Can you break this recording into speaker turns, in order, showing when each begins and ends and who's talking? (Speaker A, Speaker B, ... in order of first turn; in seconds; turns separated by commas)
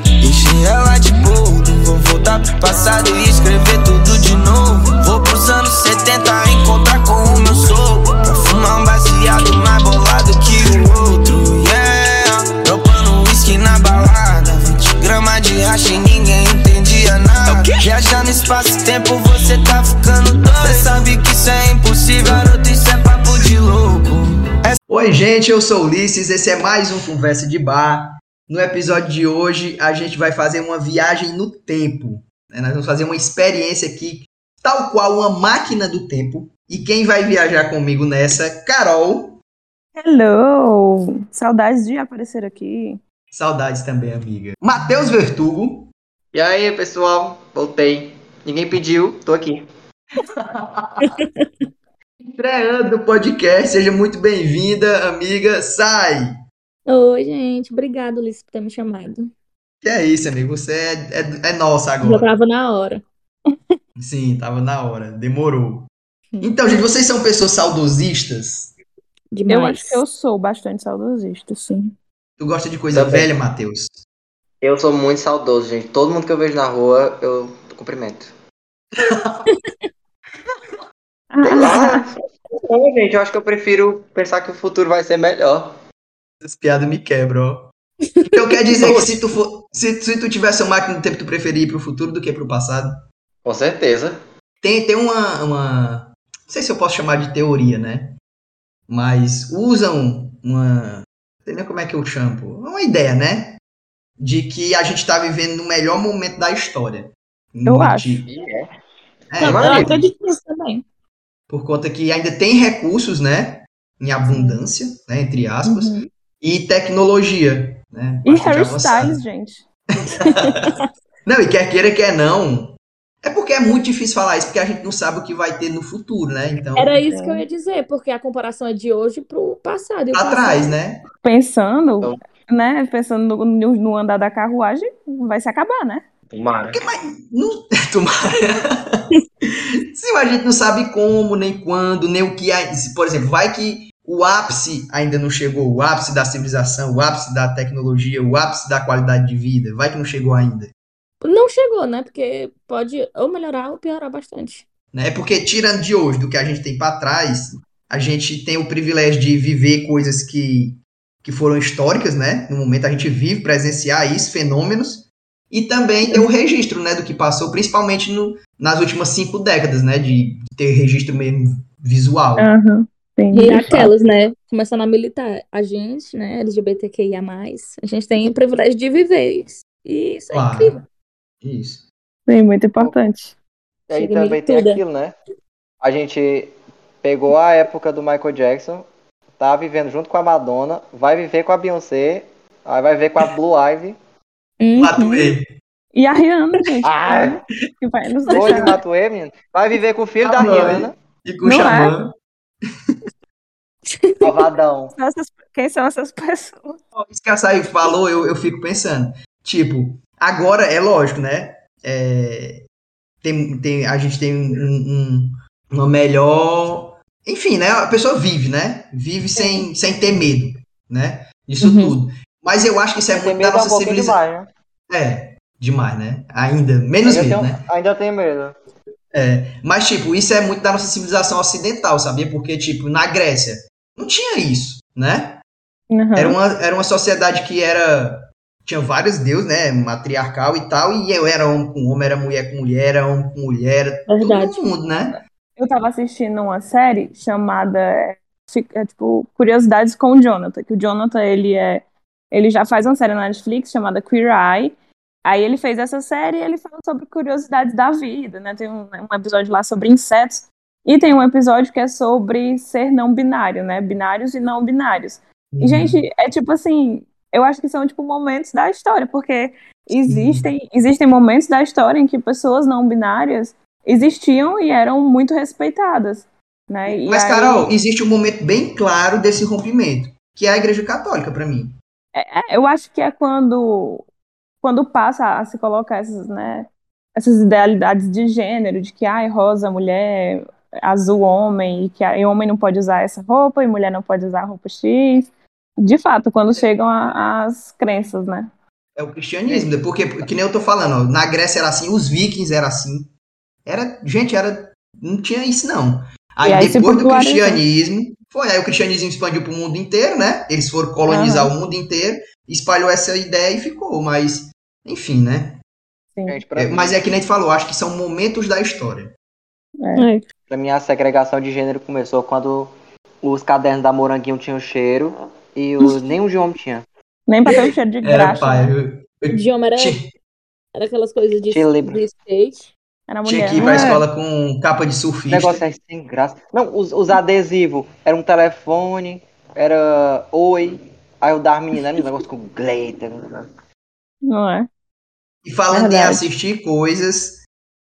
Speaker A: 0.2-24.8, Speaker B: 24.9-39.4, Speaker C: 40.0-43.0, Speaker B: 43.3-45.9, Speaker D: 46.3-49.6, Speaker B: 50.6-51.1, Speaker B: 52.2-56.3, Speaker E: 56.9-59.3, Speaker B: 59.8-62.3, Speaker E: 62.0-63.0, Speaker B: 64.0-65.9, Speaker B: 66.4-68.7, Speaker E: 69.3-70.0, Speaker C: 69.5-71.9, Speaker B: 72.4-74.0, Speaker D: 72.9-73.3, Speaker D: 74.6-78.3, Speaker B: 79.1-79.4, Speaker C: 81.3-82.0, Speaker D: 81.4-82.1, Speaker D: 82.6-85.7, Speaker B: 86.4-87.7, Speaker E: 88.1-88.6, Speaker B: 88.3-93.0, Speaker D: 88.8-89.1, Speaker D: 93.4-94.2, Speaker B: 94.6-98.1, Speaker B: 98.9-103.6, Speaker B: 104.2-108.3, Speaker C: 107.7-108.2, Speaker D: 108.3-108.7, Speaker B: 109.3-110.0, Speaker D: 109.3-110.0, Speaker E: 109.4-110.8, Speaker B: 111.5-119.2, Speaker E: 114.3-114.6, Speaker C: 115.7-116.0, Speaker C: 118.2-119.6, Speaker B: 120.2-120.5, Speaker B: 121.2-127.0, Speaker E: 126.8-130.7, Speaker C: 127.1-127.4, Speaker B: 130.1-131.0, Speaker C: 131.2-136.0, Speaker D: 136.3-136.8, Speaker B: 136.7-139.0, Speaker B: 139.9-150.7, Speaker E: 151.2-154.7, Speaker B: 154.9-172.5, Speaker C: 172.4-173.7, Speaker E: 173.3-180.8, Speaker B: 180.3-180.8, Speaker B: 181.4-181.8, Speaker C: 182.3-183.3, Speaker D: 183.9-185.2, Speaker E: 183.9-184.8, Speaker D: 185.8-188.8, Speaker D: 189.4-194.0, Speaker E: 194.6-195.3, Speaker B: 194.7-195.4, Speaker C: 195.9-198.7, Speaker D: 196.8-197.4, Speaker D: 198.3-200.9, Speaker B: 200.2-202.1, Speaker C: 201.4-201.9, Speaker E: 203.9-204.2, Speaker D: 204.2-204.9, Speaker C: 204.9-206.8, Speaker B: 206.9-212.6, Speaker B: 213.2-224.2, Speaker E: 221.6-221.9, Speaker D: 223.1-224.5, Speaker B: 224.9-227.6, Speaker D: 227.1-228.6, Speaker B: 229.1-235.4, Speaker C: 235.9-236.3, Speaker B: 236.2-245.2, Speaker E: 244.1-244.6, Speaker C: 245.6-254.7, Speaker C: 255.2-277.7, Speaker B: 265.5-266.0, Speaker B: 270.0-270.5, Speaker B: 276.9-281.7, Speaker C: 282.1-284.0, Speaker C: 284.6-298.5, Speaker B: 298.9-303.1, Speaker D: 299.5-300.3, Speaker B: 303.6-315.6, Speaker C: 306.4-307.6, Speaker C: 311.1-311.5, Speaker C: 316.1-316.4, Speaker D: 316.3-317.0, Speaker B: 316.6-319.1, Speaker C: 319.8-320.1, Speaker E: 319.9-320.2, Speaker D: 320.5-326.9, Speaker C: 327.3-328.7, Speaker B: 328.0-330.1, Speaker E: 329.3-330.0, Speaker E: 330.7-332.7, Speaker D: 331.4-332.0, Speaker C: 333.1-334.0, Speaker B: 333.2-335.6, Speaker E: 333.6-333.9, Speaker D: 335.3-343.5, Speaker C: 344.2-344.7, Speaker B: 345.4-347.4, Speaker C: 345.7-346.3